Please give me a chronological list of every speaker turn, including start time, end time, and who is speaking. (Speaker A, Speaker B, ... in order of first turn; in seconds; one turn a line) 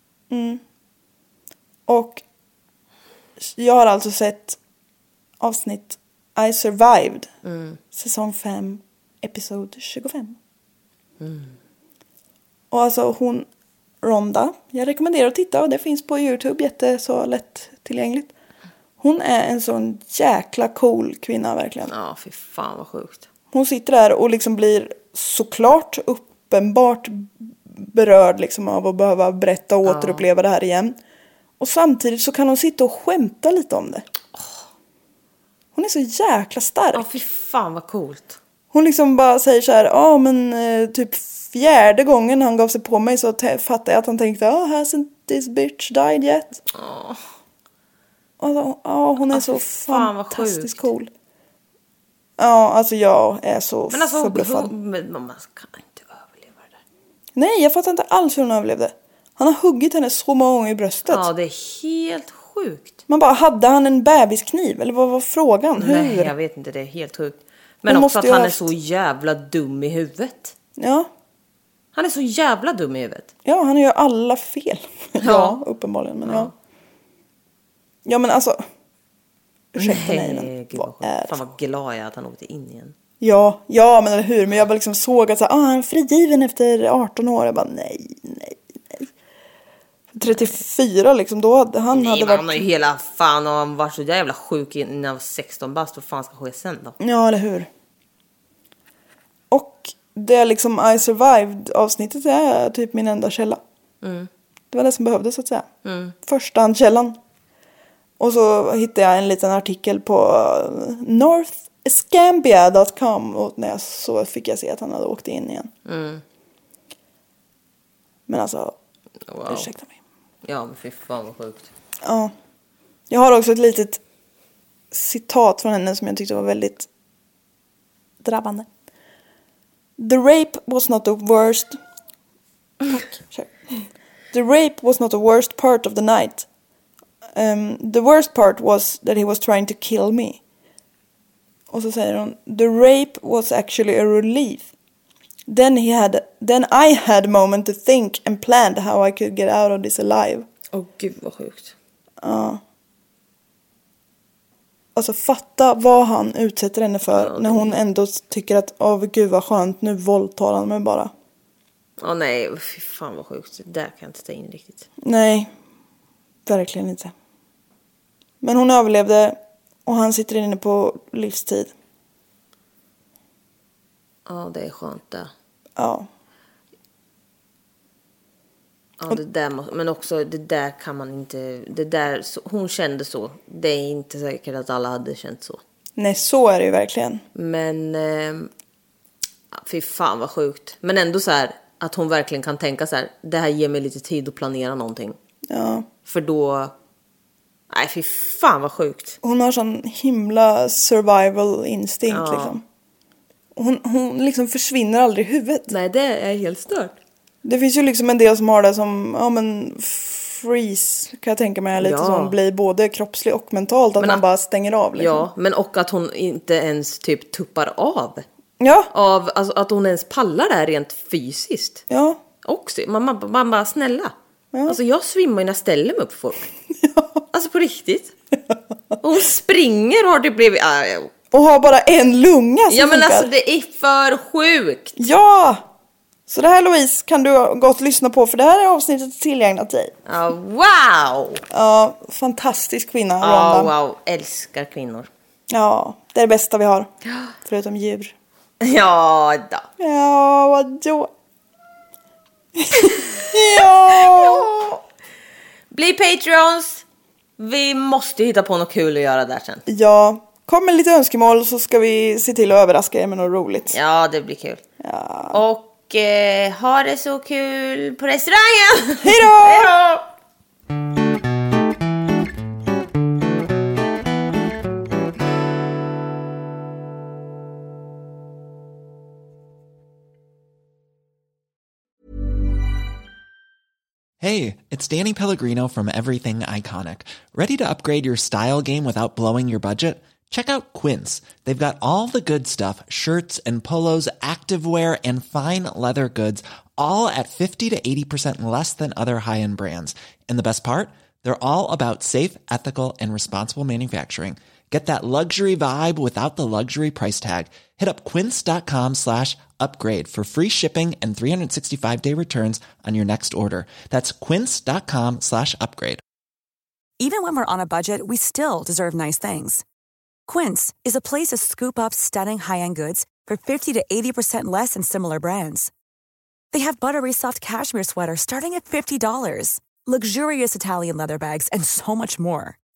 Speaker A: 0.3-0.6
Speaker A: 1.9-2.2
Speaker A: 3.4-4.6
Speaker A: 5.4-7.3
Speaker B: 7.4-7.8
Speaker A: 7.9-10.4
Speaker B: 11.2-11.6
Speaker A: 12.7-13.5
Speaker A: 14.0-18.3
Speaker A: 19.0-21.9
Speaker B: 21.9-23.3
Speaker A: 23.5-31.0
Speaker B: 29.8-30.3
Speaker A: 31.6-34.1
Speaker B: 34.3-34.6
Speaker A: 35.8-37.2
Speaker B: 36.9-38.4
Speaker A: 38.7-46.6
Speaker B: 46.7-47.2
Speaker A: 48.4-51.1
Speaker B: 49.3-50.9
Speaker A: 52.4-54.7
Speaker B: 53.9-56.8
Speaker A: 57.4-61.3
Speaker B: 61.1-63.0
Speaker A: 63.1-66.3
Speaker B: 65.8-70.5
Speaker A: 67.9-68.7
Speaker A: 70.8-71.1
Speaker B: 71.9-73.3
Speaker A: 73.5-76.5
Speaker B: 75.2-75.6
Speaker B: 76.2-76.5
Speaker A: 78.0-78.6
Speaker A: 79.8-81.4
Speaker B: 79.8-83.0
Speaker A: 83.2-89.1
Speaker A: 90.1-92.7
Speaker B: 90.3-90.5
Speaker B: 91.9-97.0
Speaker A: 97.0-97.7
Speaker A: 99.5-103.6
Speaker B: 104.0-104.3
Speaker A: 104.7-105.7
Speaker B: 105.8-106.2
Speaker A: 106.2-107.2
Speaker A: 108.2-115.7
Speaker B: 115.9-116.2
Speaker A: 118.3-118.8
Speaker B: 119.3-119.7
Speaker A: 119.5-120.0
Speaker B: 120.4-121.7
Speaker A: 122.0-122.3
Speaker A: 123.1-124.0
Speaker A: 124.9-126.9
Speaker A: 128.2-128.7
Speaker A: 130.0-131.8
Speaker A: 132.9-136.5
Speaker A: 137.3-140.4
Speaker A: 141.7-144.7
Speaker A: 145.5-150.5
Speaker B: 150.7-151.8
Speaker A: 152.2-152.6
Speaker A: 154.9-161.1
Speaker B: 157.1-157.8
Speaker B: 162.0-164.9
Speaker A: 165.0-165.5
Speaker A: 166.5-167.1
Speaker A: 168.4-171.7
Speaker B: 174.3-175.3
Speaker A: 175.8-176.1
Speaker B: 179.0-185.6
Speaker A: 186.0-187.2
Speaker B: 187.3-188.5
Speaker B: 189.5-195.2
Speaker A: 195.5-195.9
Speaker B: 196.1-196.7
Speaker B: 197.7-199.2
Speaker A: 199.2-202.6
Speaker B: 202.1-202.6
Speaker A: 203.6-205.7
Speaker B: 205.7-207.0
Speaker A: 207.4-215.3
Speaker B: 211.8-212.4
Speaker B: 214.0-214.2
Speaker B: 215.0-218.2
Speaker A: 218.6-218.9
Speaker B: 218.9-221.8
Speaker A: 221.9-222.2
Speaker B: 222.4-224.1
Speaker A: 224.5-224.8
Speaker B: 224.7-226.5
Speaker A: 226.8-227.2
Speaker B: 227.3-228.1
Speaker B: 229.0-231.1
Speaker A: 231.3-233.3
Speaker B: 232.7-235.1
Speaker A: 235.0-235.7
Speaker A: 236.3-239.9
Speaker B: 240.1-241.4
Speaker A: 241.5-243.7
Speaker B: 243.2-245.1
Speaker A: 245.5-246.9
Speaker B: 247.1-247.3
Speaker A: 247.4-248.1
Speaker B: 248.6-249.7
Speaker A: 249.8-251.1
Speaker A: 252.6-254.6
Speaker B: 252.8-254.8
Speaker B: 255.7-256.8
Speaker B: 257.4-259.6
Speaker A: 259.7-263.8
Speaker B: 263.7-264.6
Speaker A: 264.8-265.4
Speaker B: 265.3-270.1
Speaker A: 269.0-269.8
Speaker C: 284.2-316.0
Speaker D: 317.0-319.6
Speaker D: 320.3-325.7
Speaker D: 326.5-332.6